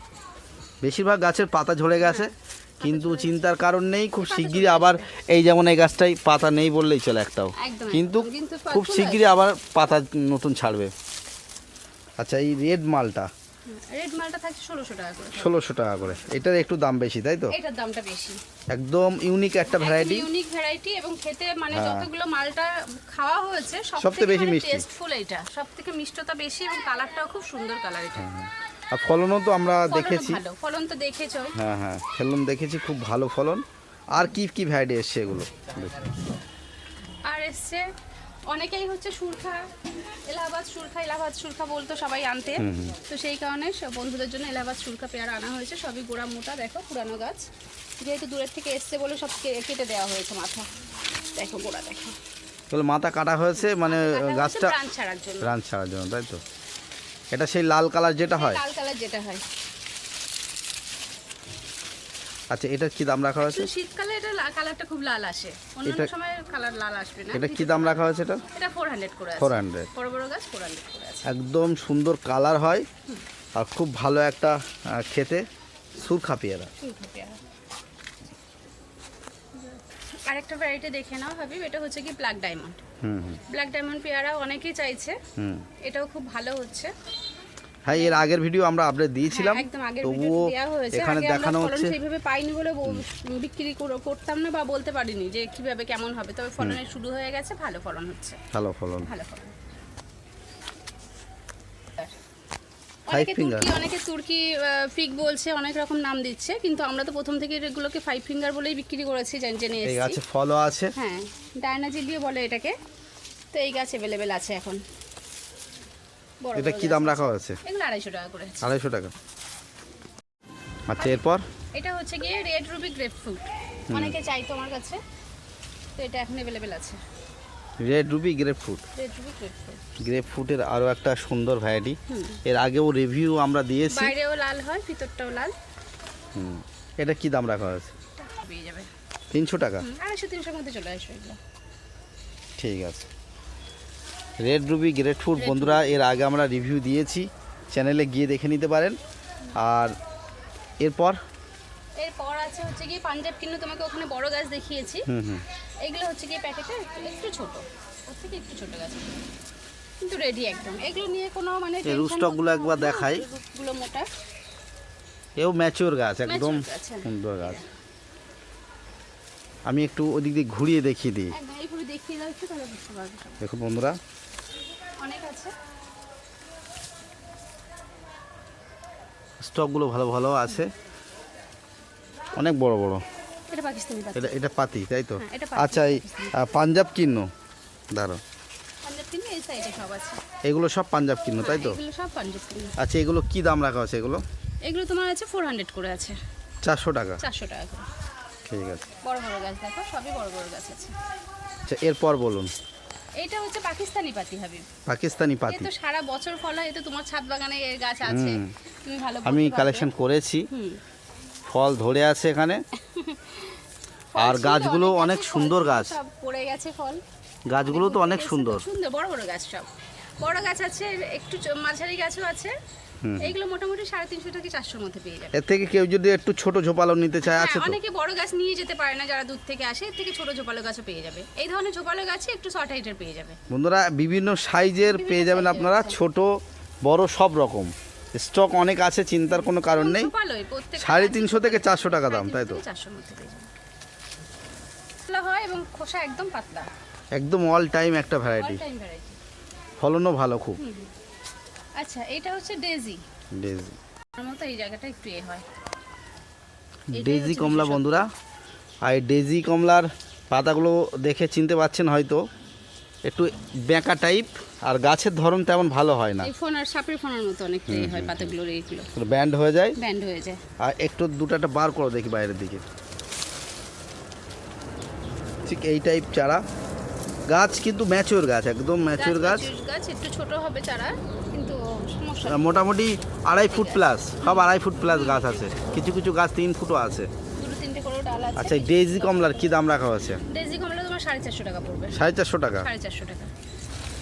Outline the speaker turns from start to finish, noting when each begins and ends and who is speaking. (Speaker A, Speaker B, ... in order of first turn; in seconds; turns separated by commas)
Speaker A: 0.8-10.9, Speaker B: 2.0-3.5, Speaker B: 4.2-5.1, Speaker B: 7.6-9.3, Speaker A: 12.2-13.3, Speaker B: 13.7-15.5, Speaker A: 15.3-17.6, Speaker B: 17.5-18.4, Speaker A: 18.7-20.3, Speaker B: 19.7-28.3, Speaker A: 21.7-22.1, Speaker A: 24.0-24.9, Speaker A: 28.2-30.4, Speaker B: 29.9-31.6, Speaker A: 31.6-36.1, Speaker B: 37.3-37.9, Speaker B: 38.5-39.7, Speaker B: 40.3-47.5, Speaker A: 42.6-43.0, Speaker B: 48.0-50.7, Speaker B: 51.3-52.2, Speaker A: 52.7-54.8, Speaker B: 53.8-55.5, Speaker A: 55.4-56.4, Speaker A: 57.3-58.6, Speaker B: 58.4-59.4, Speaker A: 62.5-63.7, Speaker B: 63.4-68.0, Speaker A: 65.8-66.1, Speaker A: 67.3-68.4, Speaker B: 68.5-71.3, Speaker A: 69.4-69.9, Speaker A: 71.3-72.9, Speaker A: 73.5-75.5, Speaker A: 76.0-76.7, Speaker B: 76.8-77.4, Speaker B: 79.6-82.8, Speaker A: 83.0-83.4, Speaker B: 83.5-85.2, Speaker A: 85.4-85.7, Speaker B: 85.8-86.9, Speaker A: 87.9-91.9, Speaker B: 87.9-88.2, Speaker B: 89.3-98.4, Speaker A: 98.5-99.1, Speaker B: 99.0-99.5, Speaker B: 103.1-110.2, Speaker A: 103.1-103.7, Speaker A: 109.8-110.9, Speaker B: 111.0-112.8, Speaker B: 113.5-114.8, Speaker B: 116.4-118.6, Speaker A: 116.5-117.6, Speaker A: 118.6-119.1, Speaker A: 120.9-121.5, Speaker B: 121.8-125.0, Speaker A: 123.9-124.2, Speaker B: 126.0-127.0, Speaker A: 127.8-128.8, Speaker B: 129.0-129.8, Speaker A: 130.0-134.1, Speaker B: 132.1-132.4, Speaker B: 133.9-135.5, Speaker A: 136.3-137.9, Speaker B: 138.2-138.9, Speaker A: 139.3-139.9, Speaker B: 139.8-141.4, Speaker A: 142.6-143.1, Speaker A: 144.4-149.0, Speaker B: 145.4-145.8, Speaker A: 149.6-149.9, Speaker A: 150.8-151.2, Speaker B: 152.0-155.1, Speaker A: 155.1-155.4, Speaker B: 155.8-159.2, Speaker B: 160.0-164.1, Speaker A: 161.8-163.2, Speaker A: 165.4-167.6, Speaker B: 166.3-167.6, Speaker A: 169.7-171.3, Speaker B: 171.3-173.4, Speaker A: 173.4-174.0, Speaker B: 175.0-175.5, Speaker A: 179.4-180.7, Speaker A: 182.3-183.0, Speaker B: 183.5-184.4, Speaker A: 184.2-187.3, Speaker B: 185.2-186.4, Speaker A: 187.9-188.2, Speaker B: 188.8-190.2, Speaker A: 190.4-191.8, Speaker B: 191.4-192.7, Speaker A: 192.8-194.2, Speaker B: 194.7-196.2, Speaker A: 196.6-197.2, Speaker B: 197.2-197.9, Speaker A: 198.5-198.9, Speaker B: 199.0-200.9, Speaker A: 201.7-202.5, Speaker B: 203.2-204.7, Speaker A: 204.9-205.7, Speaker B: 205.5-209.9, Speaker A: 208.1-208.5, Speaker A: 209.2-210.5, Speaker B: 210.5-210.8, Speaker A: 211.5-212.6, Speaker B: 212.9-213.6, Speaker B: 214.1-217.0, Speaker A: 214.2-216.0, Speaker A: 217.5-218.7, Speaker B: 217.6-219.7, Speaker B: 220.2-222.5, Speaker A: 223.0-223.3, Speaker B: 223.2-225.3, Speaker A: 225.3-227.8, Speaker B: 227.2-233.4, Speaker A: 233.5-240.1, Speaker B: 234.8-236.0, Speaker B: 239.6-243.5, Speaker A: 240.8-242.6, Speaker B: 245.1-246.7, Speaker A: 247.1-248.6, Speaker B: 248.3-249.2, Speaker A: 249.8-250.6, Speaker B: 250.6-250.9, Speaker B: 251.8-253.0, Speaker A: 253.3-253.8, Speaker B: 254.2-255.4, Speaker B: 256.9-258.1, Speaker A: 256.9-258.1, Speaker A: 258.8-262.2, Speaker A: 263.1-266.3, Speaker B: 266.2-268.9, Speaker A: 267.7-268.3, Speaker A: 268.9-269.8, Speaker B: 269.8-270.4, Speaker A: 270.6-272.6, Speaker A: 275.4-276.4, Speaker A: 277.3-279.5, Speaker B: 279.0-282.6, Speaker A: 282.3-287.1, Speaker B: 283.3-285.5, Speaker B: 287.4-289.5, Speaker A: 288.4-290.2, Speaker B: 290.3-292.0, Speaker A: 291.9-292.7, Speaker B: 292.6-293.3